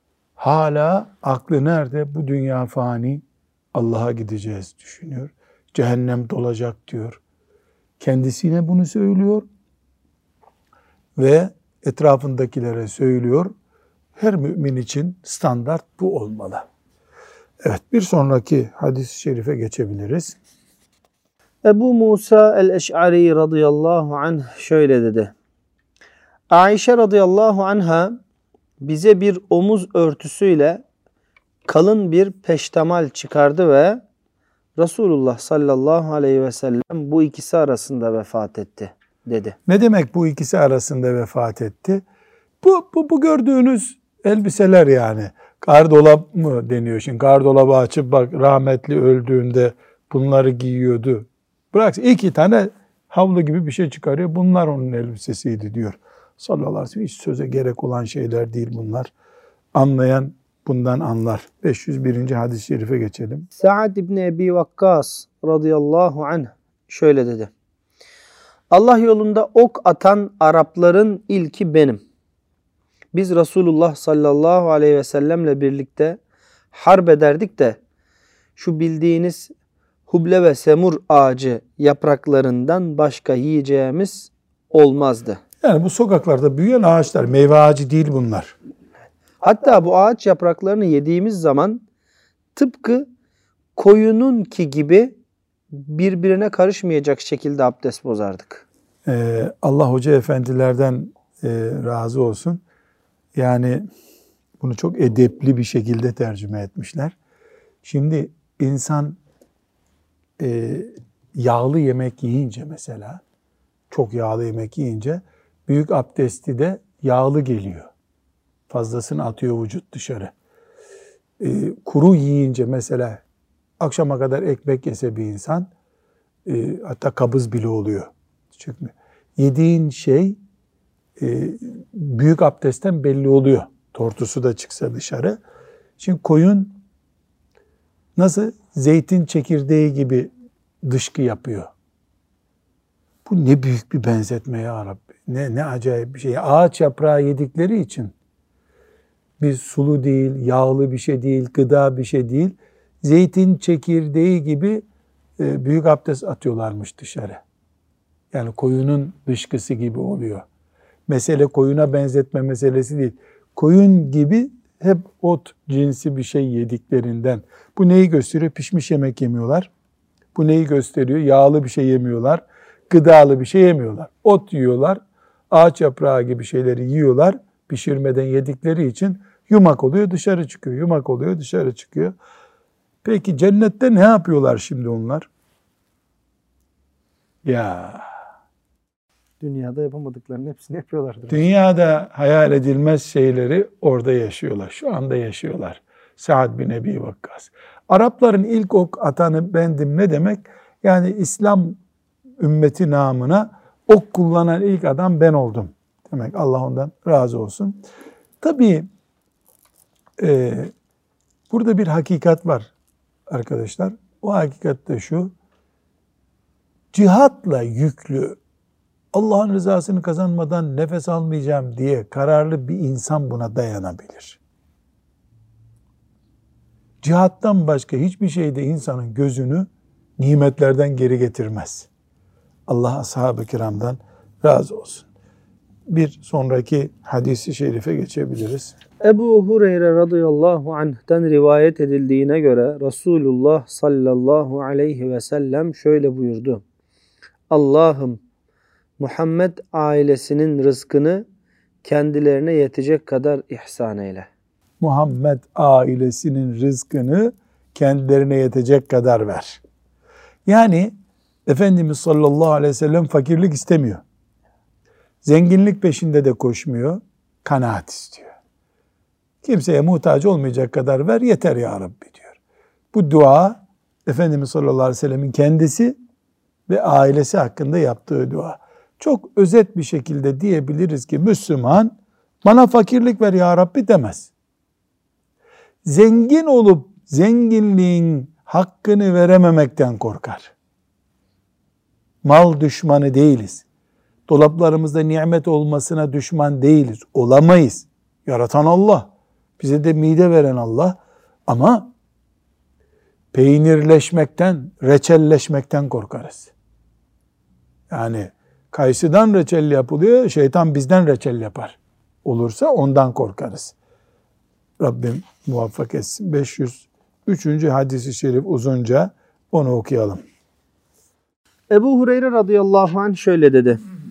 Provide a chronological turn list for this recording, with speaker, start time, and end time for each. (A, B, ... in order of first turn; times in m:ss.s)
0:00.4-0:03.2 A
0:03.7-0:07.2 A
0:08.0-0:09.5 A
0:11.2-0:13.5 A
0:14.2-0:16.6 A
0:17.6-0:20.4 A
0:21.6-0:25.3 B
0:26.5-0:28.2 B
0:28.8-0:30.8 B
0:31.7-0:34.0 B
0:34.8-0:39.6 B
0:39.6-0:42.0 A
0:42.6-0:59.1 A
0:59.7-1:03.5 A
1:03.6-1:07.5 B
1:08.7-1:12.0 B
1:13.1-1:16.2 B
1:16.7-1:17.8 B
1:18.6-1:19.5 B
1:20.1-1:25.4 B
1:25.6-1:28.5 A
1:29.4-1:31.8 B
1:32.6-1:33.1 B
1:33.8-1:35.1 B
1:35.7-1:38.6 B
1:39.0-1:42.6 A
1:43.3-1:43.9 A
1:44.6-1:47.1 A
1:47.8-1:49.2 A
1:50.4-1:53.2 A
1:53.9-1:57.9 A
1:58.7-2:00.3 A
2:01.4-2:03.2 A
2:03.8-2:05.7 A
2:06.4-2:10.4 A
2:11.2-2:15.4 A
2:16.0-2:16.8 A
2:18.2-2:20.3 A
2:20.8-2:21.7 A
2:23.2-2:28.1 A
2:29.4-2:34.8 A
2:35.4-2:37.4 A
2:38.3-2:40.4 A
2:41.1-2:49.7 A
2:50.3-3:02.1 A
3:03.0-3:05.3 A
3:07.4-3:08.0 A
3:09.4-3:11.4 B
3:11.3-3:21.8 A
3:22.4-3:27.8 A
3:28.4-3:28.9 A
3:30.2-3:30.7 A
3:31.5-3:32.7 A
3:33.3-3:35.3 A
3:36.9-3:38.4 A
3:39.1-3:44.4 A
3:47.0-3:51.9 A
3:52.7-3:55.1 A
3:55.9-3:58.8 A
3:59.0-4:06.6 B
4:07.5-4:08.2 B
4:09.0-4:11.2 B
4:11.8-4:14.3 B
4:14.8-4:19.6 A
4:20.4-4:20.9 A
4:21.4-4:24.0 A
4:25.2-4:28.3 A
4:29.4-4:32.4 A
4:32.9-4:36.0 A
4:36.7-4:44.3 A
4:45.8-4:50.5 A
4:52.2-4:53.6 A
4:54.3-5:01.9 A
5:03.3-5:06.5 A
5:07.9-5:13.7 A
5:14.8-5:20.2 A
5:21.7-5:23.8 B